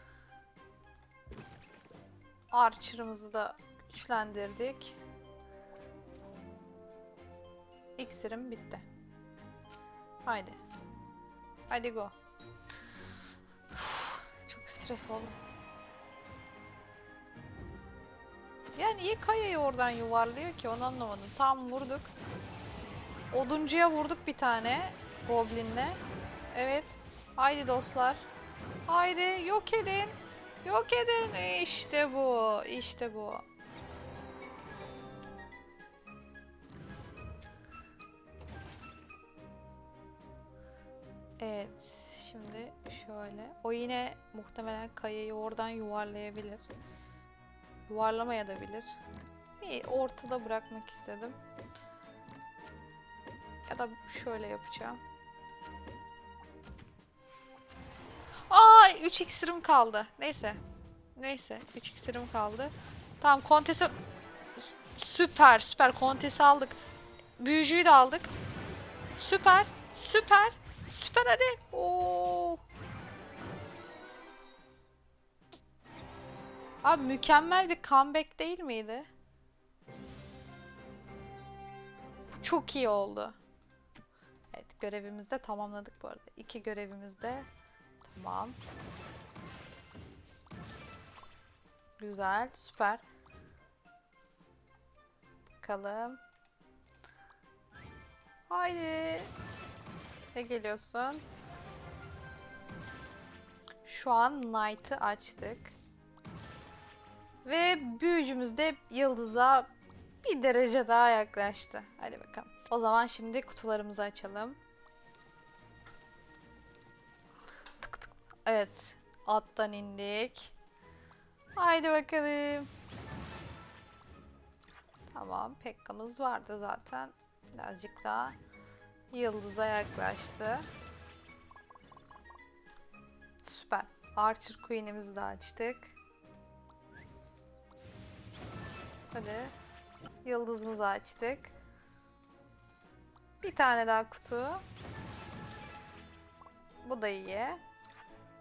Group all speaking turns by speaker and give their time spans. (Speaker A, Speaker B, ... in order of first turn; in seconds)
Speaker A: 2.5-5.0, 8.0-8.8, 10.2-10.6, 11.7-12.2, 13.7-15.4, 18.8-22.1, 23.3-26.0, 26.5-28.3, 28.9-33.5, 41.4-46.7, 47.9-49.0, 49.6-51.4, 53.7-55.0, 58.5-60.6, 61.2-63.9, 64.6-66.8, 67.4-68.3, 69.2-72.6, 76.8-79.1, 82.3-83.4, 84.5-87.5, 88.0-88.6, 92.0-93.0, 95.6-96.2, 98.5-99.3, 100.3-101.2, 103.8-105.8, 107.5-109.7, 110.2-114.6, 117.8-120.6, 121.6-122.7, 125.1-128.4, 129.1-130.7, 133.4-136.0, 139.1-139.5, 140.2-141.5, 143.4-144.6, 146.8-147.6